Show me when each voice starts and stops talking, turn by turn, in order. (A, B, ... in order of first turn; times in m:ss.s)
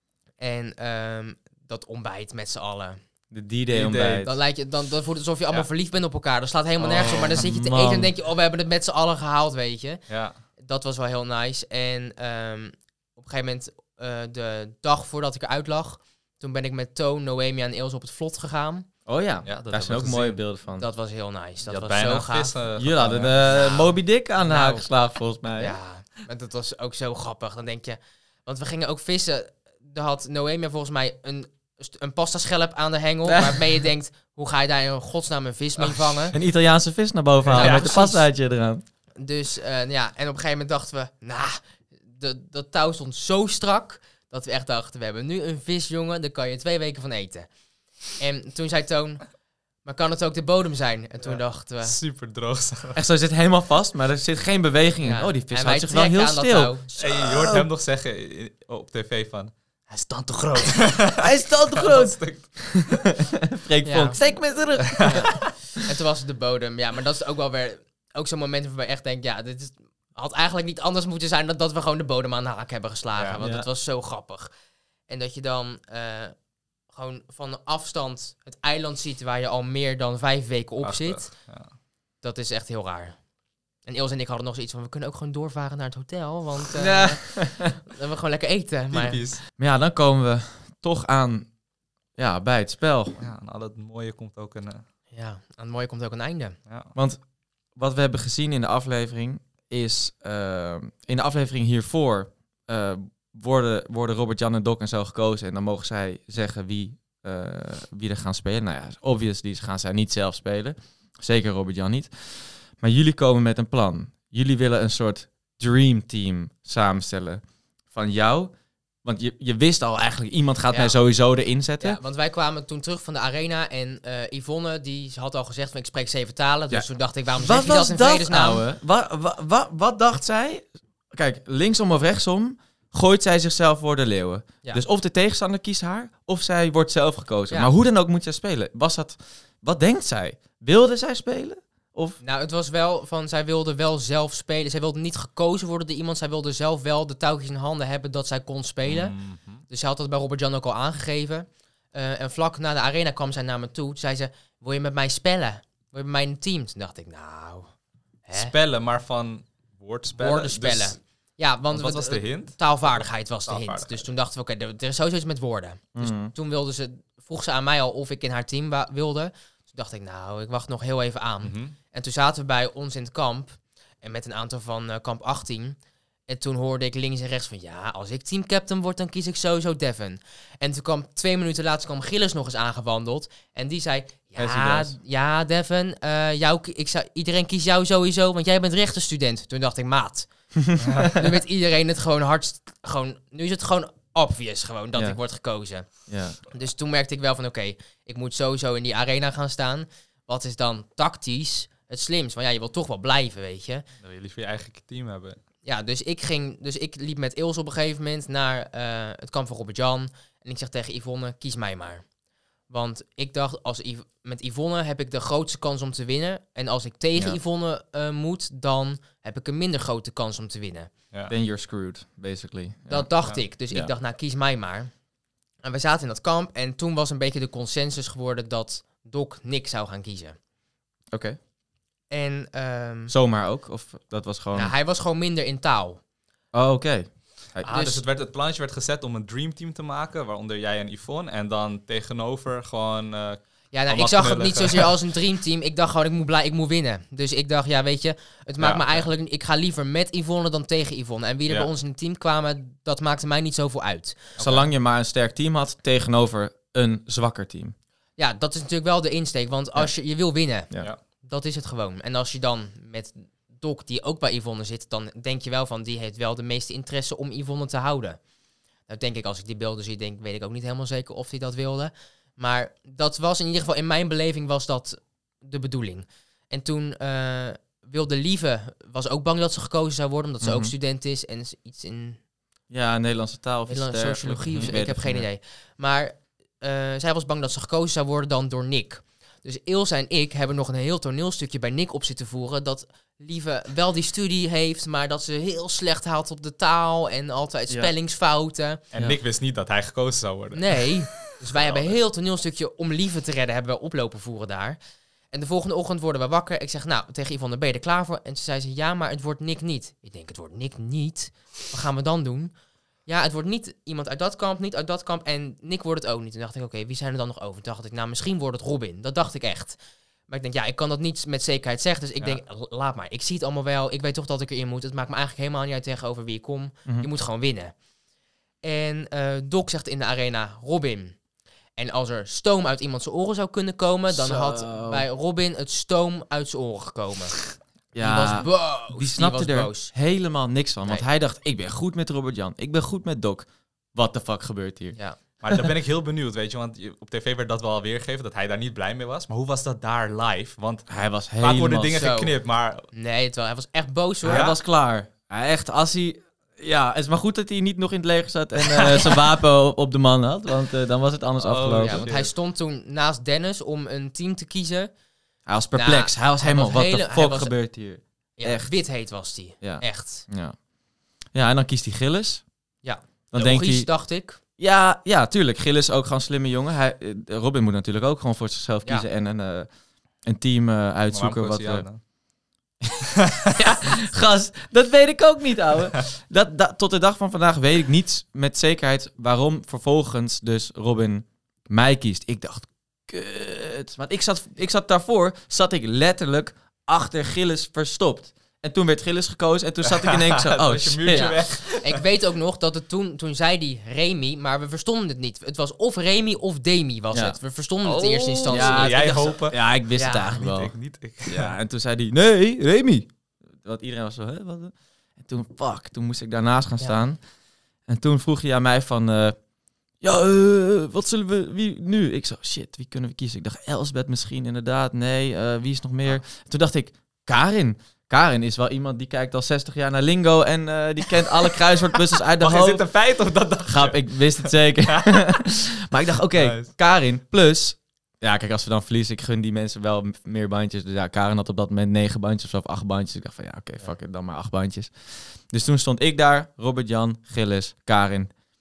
0:00.4-0:03.0 A
0:03.3-0:04.3 B
0:03.7-0:04.3 C
0:04.2-0:10.0 A
0:06.8-0:07.4 C
0:07.1-0:08.1 B
0:10.1-0:10.4 C
0:10.6-0:18.9 A
0:19.1-0:20.9 B
0:19.4-0:20.4 C
0:20.7-0:22.6 A
0:21.6-0:23.5 C
0:22.8-0:25.8 B
0:23.4-0:24.9 A
0:25.6-0:36.4 A
0:33.3-0:33.7 B
0:36.3-0:38.8 B
0:37.4-0:38.0 C
0:37.5-0:38.3 A
0:39.2-0:47.5 A
0:48.0-0:52.0 A
0:51.2-0:53.0 C
0:53.0-0:57.7 B
0:55.0-0:57.3 A
0:57.0-1:03.1 C
1:01.2-1:05.5 B
1:03.8-1:04.2 A
1:04.9-1:05.3 C
1:05.0-1:14.5 A
1:13.2-1:13.4 C
1:13.4-1:13.7 B
1:15.1-1:16.4 A
1:16.9-1:21.6 A
1:20.8-1:21.7 C
1:22.2-1:23.3 A
1:23.8-1:29.4 A
1:26.8-1:27.8 B
1:28.9-1:29.4 C
1:29.6-1:31.6 B
1:32.2-1:33.2 B
1:33.2-1:34.8 C
1:35.1-1:36.6 A
1:36.7-1:36.9 C
1:37.0-1:58.5 B
1:59.0-2:02.0 B
2:00.7-2:01.0 A
2:01.8-2:08.7 A
2:07.4-2:22.2 B
2:22.2-2:38.5 A
2:28.8-2:29.6 C
2:38.4-2:41.2 C
2:40.2-3:23.9 A
2:41.7-2:44.0 C
2:46.0-2:46.3 B
2:51.4-2:51.8 C
3:04.4-3:04.9 B
3:04.5-3:04.9 C
3:10.8-3:11.2 C
3:14.9-3:15.2 B
3:16.1-3:16.4 B
3:24.0-3:25.4 C
3:25.6-3:32.1 A
3:32.7-3:40.9 A
3:41.3-3:43.1 B
3:42.9-3:44.9 A
3:45.6-3:50.4 A
3:51.1-3:51.4 B
3:52.1-3:53.1 A
3:53.1-3:54.8 B
3:54.5-3:56.0 A
3:56.5-3:57.7 B
3:57.6-4:04.9 C
3:57.7-3:58.0 A
4:03.7-4:14.4 A
4:08.6-4:09.1 C
4:14.4-4:14.7 C
4:14.4-4:17.8 B
4:18.2-4:28.2 A
4:28.9-4:42.2 A
4:40.4-4:40.7 B
4:42.7-4:45.3 B
4:43.7-4:58.8 A
4:58.9-5:02.0 C
5:00.5-5:04.8 A
5:05.3-5:12.5 A
5:13.1-5:27.8 A
5:28.6-5:31.2 A
5:31.8-5:40.0 A
5:34.1-5:35.1 B
5:37.9-5:45.0 B
5:45.4-5:52.9 C
5:50.9-5:52.0 B
5:51.9-5:52.4 A
5:52.9-5:54.5 A
5:54.2-6:02.0 B
5:54.2-5:54.6 C
5:58.7-5:59.1 C
6:01.4-6:02.3 C
6:01.8-6:04.9 A
6:05.5-6:08.8 B
6:05.7-6:07.6 A
6:08.4-6:10.3 A
6:09.6-6:10.6 B
6:11.3-6:12.4 B
6:12.8-6:14.4 A
6:13.3-6:13.9 B
6:14.6-6:19.7 B
6:20.2-6:21.9 B
6:21.1-6:22.0 C
6:23.6-6:41.4 B
6:39.8-6:42.0 C
6:41.1-6:49.4 A
6:47.8-6:51.5 C
6:48.5-6:50.7 B
6:50.0-6:50.4 A
6:51.3-6:57.2 B
6:57.8-6:59.4 B
7:00.0-7:12.9 B
7:12.4-7:15.4 C
7:13.7-7:28.3 B
7:16.4-7:16.7 C